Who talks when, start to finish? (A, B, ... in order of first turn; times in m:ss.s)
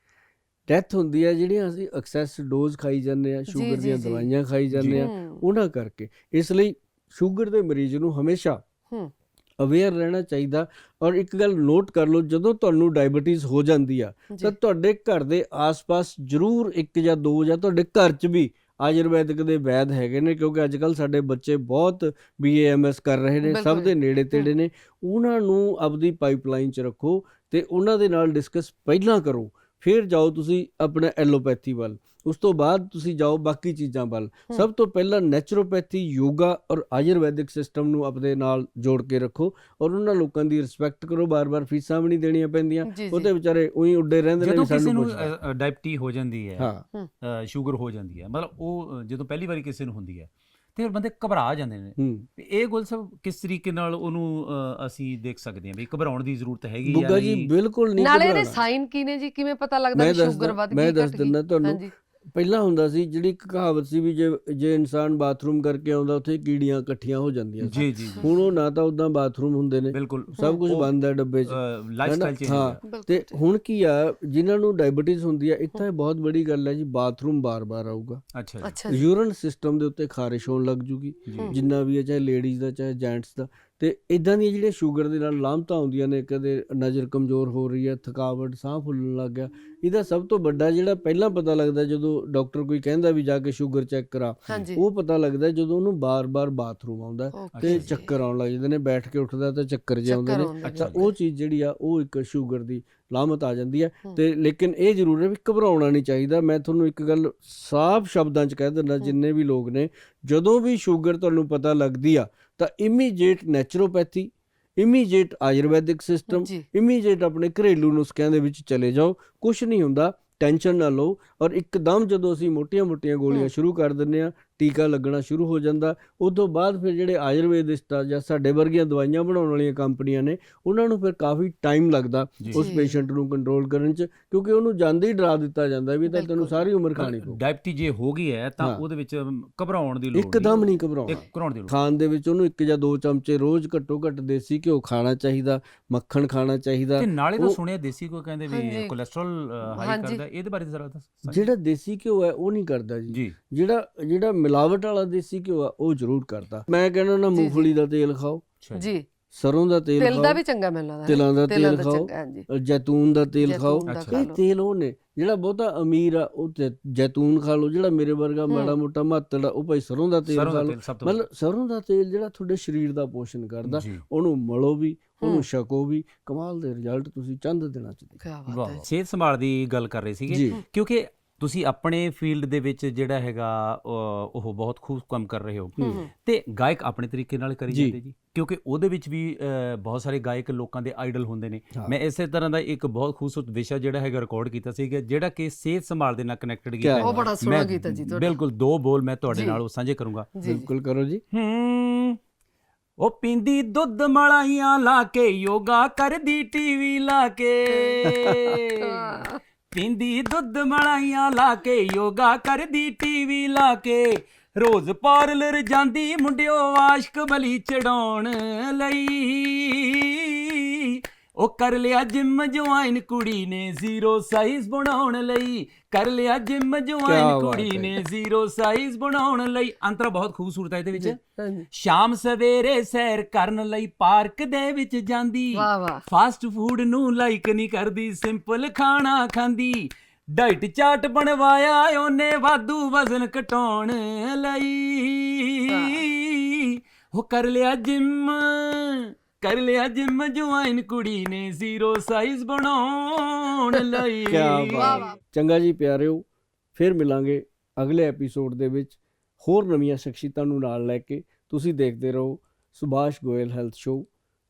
0:00.7-0:08.6 A
0:03.5-0:04.3 B
0:04.7-0:05.1 C
0:05.0-0:05.4 B
0:09.6-0:45.3 A
0:23.4-0:24.5 B
0:42.9-0:43.3 B
0:44.4-0:57.5 C
0:46.6-0:46.8 A
0:52.0-0:52.3 A
0:56.9-0:58.6 A
0:58.0-1:01.9 B
0:59.9-1:01.8 A
1:02.4-1:18.2 A
1:07.6-1:08.3 C
1:07.7-1:08.6 B
1:09.9-1:10.9 C
1:11.5-1:12.8 C
1:12.8-1:13.4 B
1:18.3-1:18.8 C
1:18.6-1:19.1 B
1:18.9-2:17.4 A
1:21.3-1:21.6 C
1:34.5-1:34.8 B
1:37.3-1:38.2 B
1:37.6-1:37.9 C
1:40.1-1:41.1 B
1:40.6-1:41.1 C
1:56.3-1:56.6 B
2:12.4-2:12.7 C
2:12.6-2:13.0 B
2:16.1-2:16.6 B
2:17.0-2:21.8 C
2:20.1-2:27.6 A
2:20.4-2:20.8 B
2:27.0-2:31.5 C
2:28.5-2:28.9 B
2:29.8-2:30.2 B
2:31.2-2:38.4 A
2:33.1-2:33.4 C
2:37.4-2:37.7 B
2:38.6-2:38.9 C
2:38.8-2:39.1 B
2:39.3-2:40.4 A
2:40.0-2:42.5 B
2:41.1-2:58.2 A
2:43.4-2:44.4 B
2:43.9-2:44.2 C
2:48.5-2:48.8 B
2:50.3-2:51.2 C
2:53.6-2:54.0 C
2:58.2-2:58.9 B
2:58.5-3:20.4 C
3:00.3-3:00.6 A
3:05.8-3:06.1 A
3:05.8-3:06.1 B
3:07.7-3:08.0 A
3:16.8-3:17.1 A
3:17.0-3:18.3 B
3:19.3-3:19.6 B
3:20.4-3:20.7 B
3:20.4-3:21.2 A
3:21.3-3:22.2 C
3:23.0-3:51.2 C
3:27.7-3:28.0 B
3:28.0-3:28.6 A
3:28.8-3:29.4 B
3:47.0-3:48.0 A
3:51.0-3:51.7 B
3:51.7-4:15.1 C
3:55.5-3:56.0 B
4:05.7-4:06.0 B
4:14.2-4:24.1 A
4:14.7-4:15.2 B